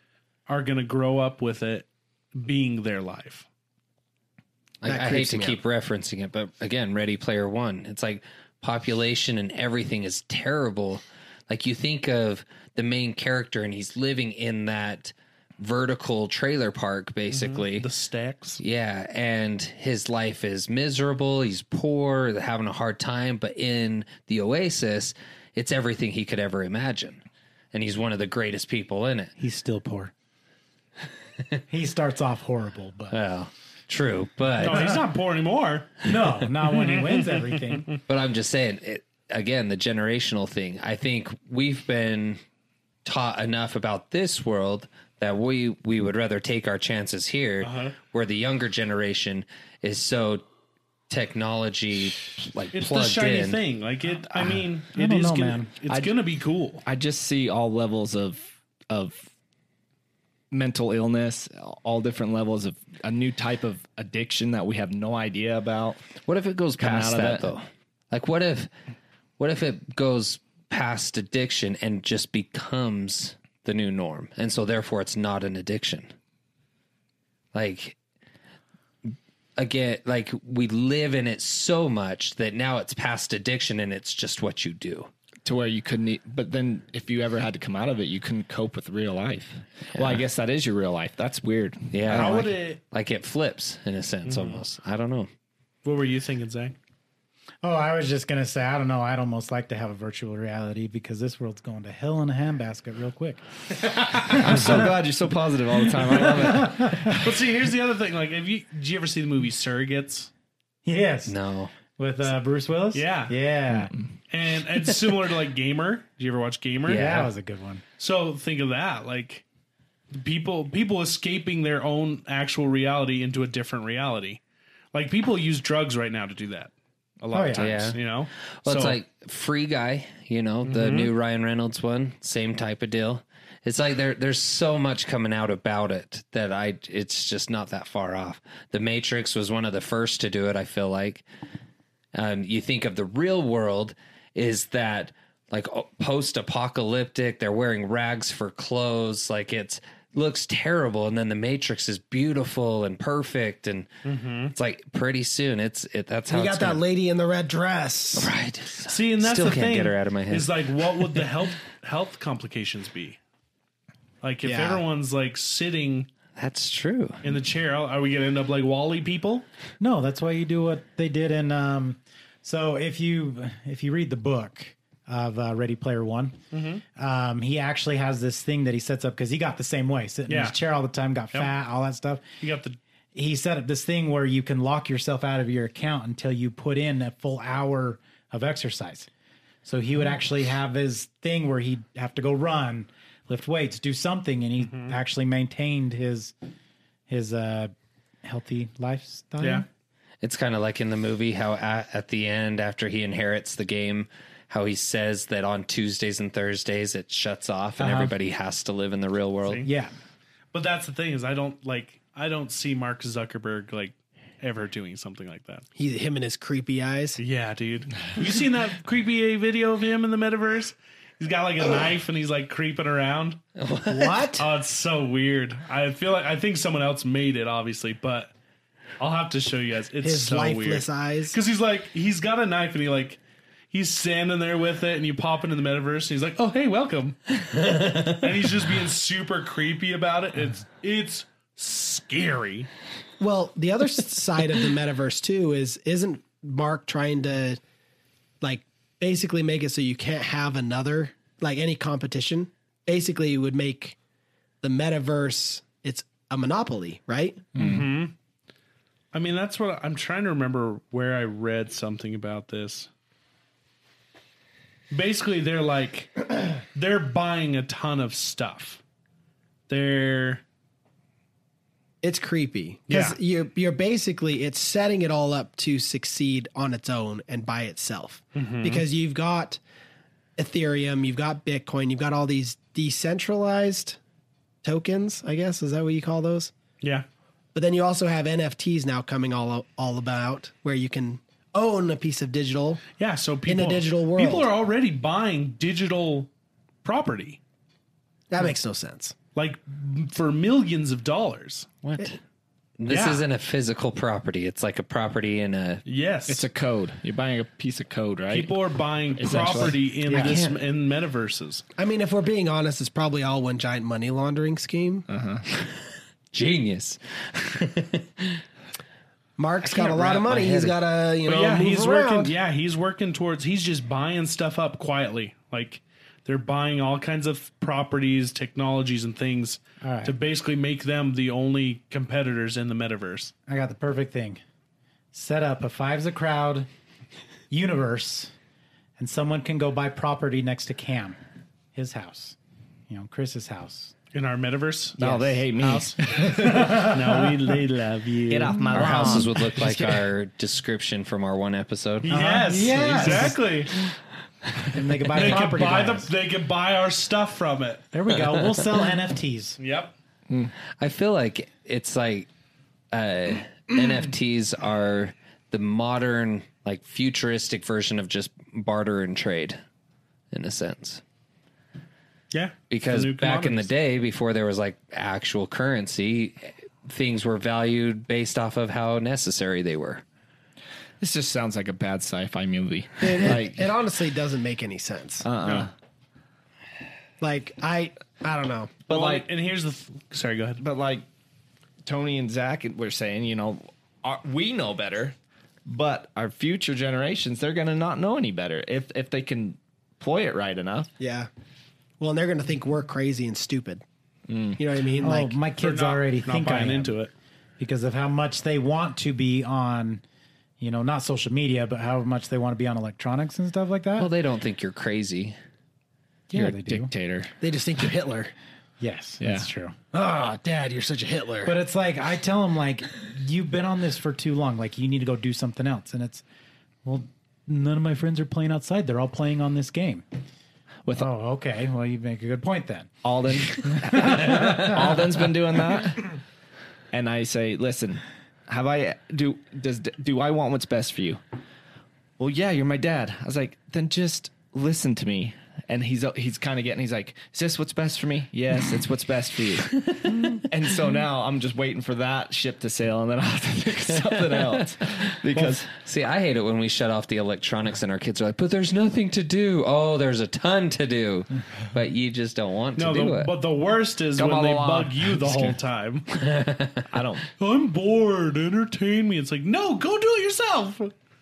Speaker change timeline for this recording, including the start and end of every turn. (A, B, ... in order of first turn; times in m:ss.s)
0:00.5-0:03.4 A
0:04.8-0:17.9 B
0:04.8-0:05.6 C
0:17.3-0:18.6 A
0:18.6-0:29.3 B
0:29.4-0:30.1 D
0:31.7-0:33.2 D
0:33.1-0:35.0 B
0:34.6-0:36.1 A
0:34.6-0:35.0 D
0:36.0-0:37.9 D
0:36.7-0:38.0 A
0:38.1-0:42.4 B
0:43.0-0:50.5 B
0:47.6-0:48.0 A
0:51.1-0:53.6 B
0:52.7-0:56.8 A
0:54.4-0:55.7 D
0:55.9-0:56.2 E
0:56.8-0:59.3 E
1:00.5-1:06.0 E
1:06.2-1:08.7 B
1:06.8-1:07.5 E
1:09.4-1:16.1 B
1:17.5-1:18.0 B
1:19.1-1:25.1 B
1:25.4-1:32.5 E
1:29.9-1:30.2 B
1:31.9-1:35.3 B
1:32.1-1:32.8 A
1:34.3-1:34.6 A
1:35.8-1:36.8 A
1:37.6-1:43.4 D
1:44.0-1:44.4 A
1:44.3-1:44.8 D
1:44.3-1:47.3 E
1:46.4-1:47.1 D
1:47.1-1:50.3 A
1:50.8-1:51.4 D
1:51.3-1:51.7 B
1:52.0-1:53.9 D
1:52.9-1:53.3 A
1:53.7-1:54.1 E
1:54.3-1:57.0 A
1:56.8-1:57.3 B
1:56.9-1:57.8 D
1:58.0-1:59.4 A
2:00.1-2:04.4 A
2:04.9-2:09.0 A
2:07.3-2:07.7 D
2:07.6-2:08.0 B
2:08.6-2:21.2 B
2:10.6-2:11.1 A
2:22.1-2:33.9 B
2:34.0-2:34.5 A
2:34.5-2:36.8 B
2:36.3-2:38.3 C
2:38.2-2:41.2 B
2:38.9-2:43.2 A
2:44.2-2:46.1 A
2:44.4-2:44.8 C
2:46.4-2:47.2 B
2:47.2-2:49.5 A
2:49.8-2:56.4 D
2:56.5-2:56.8 A
2:57.0-3:02.2 D
3:00.3-3:00.6 A
3:02.4-3:02.8 A
3:03.2-3:09.1 D
3:09.6-3:16.3 D
3:14.6-3:15.0 A
3:17.1-3:17.7 D
3:18.2-3:19.7 D
3:19.4-3:19.7 A
3:20.2-3:29.7 B
3:27.8-3:28.2 D
3:29.6-3:29.9 D
3:30.5-3:35.7 A
3:35.8-3:37.2 C
3:37.2-3:43.4 A
3:43.6-3:44.3 B
3:43.9-3:44.4 C
3:44.4-3:48.3 A
3:49.0-3:53.2 A
3:50.0-3:51.4 C
3:53.7-4:02.7 A
3:57.7-3:58.2 B
4:03.2-4:07.6 C
4:08.4-4:14.0 C
4:14.6-4:17.5 C
4:17.6-4:18.1 A
4:19.1-4:22.9 A
4:24.9-4:28.8 A
4:29.7-4:30.4 A
4:32.0-4:39.6 C
4:32.9-4:33.2 A
4:38.4-4:38.8 A
4:40.4-4:44.0 C
4:44.6-4:46.5 C
4:46.8-4:47.1 A
4:47.6-4:52.8 C
4:53.0-4:56.3 A
4:53.5-4:54.5 C
4:56.8-4:57.4 A
4:58.3-4:59.2 C
4:59.4-5:01.7 A
5:01.8-5:02.2 B
5:02.8-5:05.8 B
5:02.9-5:03.2 A
5:05.9-5:06.4 A
5:06.3-5:08.6 E
5:08.3-5:11.6 A
5:09.2-5:09.8 E
5:10.1-5:10.4 D
5:10.2-5:10.6 B
5:11.8-5:15.1 C
5:15.1-5:15.4 E
5:16.3-5:18.4 B
5:19.4-5:22.3 C
5:19.6-5:20.8 B
5:21.3-5:33.3 A
5:29.8-5:30.2 D
5:33.5-5:34.4 D
5:35.1-5:36.7 D
5:37.5-5:38.3 D
5:39.0-5:41.2 D
5:41.8-5:42.4 D
5:42.9-5:43.9 D
5:44.1-5:48.8 A
5:45.0-5:46.7 E
5:45.0-5:45.3 D
5:46.2-5:47.3 D
5:48.3-5:50.0 E
5:48.7-5:49.2 D
5:48.7-5:52.1 B
5:52.0-5:53.7 A
5:52.1-5:53.4 D
5:54.7-5:56.1 D
5:55.1-5:57.8 A
5:57.9-5:59.6 D
5:59.6-5:59.9 A
6:00.8-6:02.3 B
6:02.9-6:09.6 B
6:10.3-6:11.0 B
6:12.3-6:13.7 A
6:12.7-6:20.0 B
6:21.0-6:23.7 E
6:23.0-6:25.3 C
6:25.2-6:25.7 E
6:27.2-6:28.9 C
6:28.9-6:29.3 E
6:28.9-6:30.6 A
6:30.6-6:31.0 E
6:31.8-6:35.2 E
6:35.7-6:40.9 E
6:41.0-6:41.3 C
6:42.0-6:43.8 C
6:44.3-6:44.6 E
6:44.6-6:45.4 C
6:45.0-6:47.0 D
6:45.6-6:47.1 A
6:47.6-6:50.0 D
6:50.6-6:54.1 D
6:54.0-6:55.4 B
6:56.3-6:56.9 D
6:56.3-6:57.3 E
6:57.4-6:58.3 C
6:58.8-6:59.8 D
6:59.2-6:59.5 E
6:59.9-7:01.5 C
7:01.4-7:06.2 D
7:06.8-7:10.0 D
7:11.0-7:12.9 D
7:13.0-7:16.1 E
7:13.6-7:14.8 D
7:16.9-7:21.2 E
7:22.2-7:29.8 E
7:29.9-7:30.4 B
7:30.5-7:35.7 E
7:34.0-7:35.0 B
7:35.7-7:43.3 B
7:42.8-7:46.1 A
7:44.2-7:45.6 E
7:46.2-7:46.9 B
7:46.9-7:47.3 E
7:47.4-7:50.9 A